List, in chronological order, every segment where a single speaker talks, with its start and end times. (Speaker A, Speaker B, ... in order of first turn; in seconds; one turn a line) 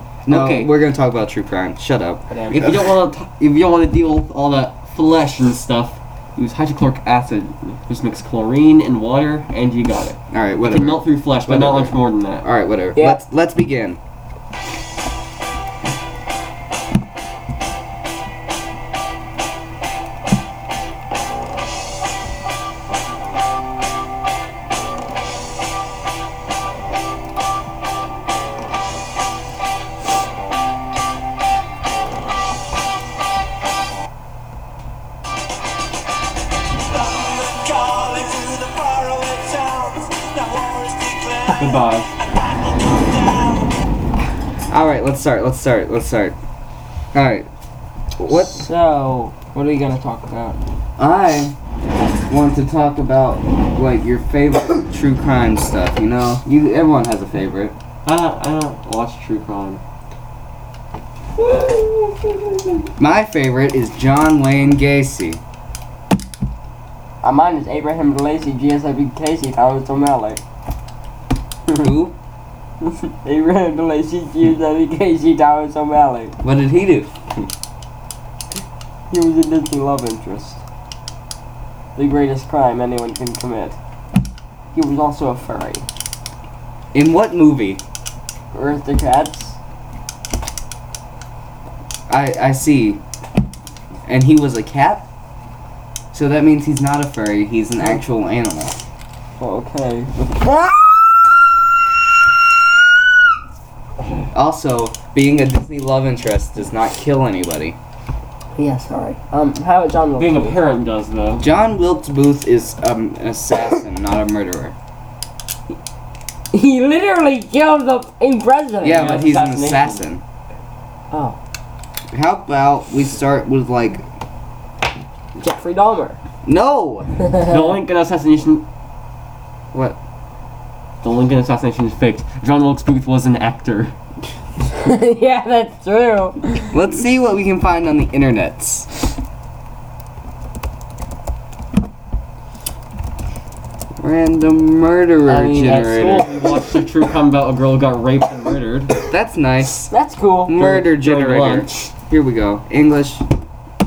Speaker A: 0.2-2.8
Speaker B: 0.3-0.7
Speaker B: 2.3-12.4
Speaker A: 10.3-14.0
Speaker C: 37.6-40.0
Speaker C: 40.5-41.0
Speaker B: 41.5-42.1
Speaker A: 44.7-46.4
Speaker A: 47.1-47.5
Speaker A: 48.2-48.7
Speaker D: 48.3-50.6
Speaker A: 51.0-51.5
Speaker A: 52.3-57.8
Speaker B: 58.0-59.8
Speaker D: 61.4-62.2
Speaker A: 63.0-65.4
Speaker D: 67.2-70.4
Speaker A: 71.7-72.1
Speaker D: 72.8-76.3
Speaker A: 76.4-77.5
Speaker D: 79.1-80.6
Speaker D: 82.0-83.8
Speaker D: 84.7-85.8
Speaker A: 86.9-87.8
Speaker D: 88.5-89.6
Speaker A: 92.1-93.0
Speaker A: 94.0-95.0
Speaker A: 96.1-98.8
Speaker D: 99.4-100.8
Speaker A: 104.3-107.8
Speaker D: 108.5-110.6
Speaker B: 110.2-111.4
Speaker A: 111.4-114.7
Speaker D: 116.5-119.1
Speaker A: 118.8-120.2
Speaker B: 118.9-120.0
Speaker D: 121.1-121.4
Speaker A: 122.1-124.0
Speaker D: 125.3-126.2
Speaker A: 126.4-127.1
Speaker D: 127.2-127.6
Speaker B: 127.5-128.6
Speaker B: 131.0-133.9
Speaker D: 134.8-136.7
Speaker A: 136.7-138.9
Speaker A: 144.0-146.3
Speaker B: 145.2-149.0
Speaker A: 149.1-149.9
Speaker D: 149.9-150.6
Speaker A: 150.5-153.2
Speaker B: 150.6-151.9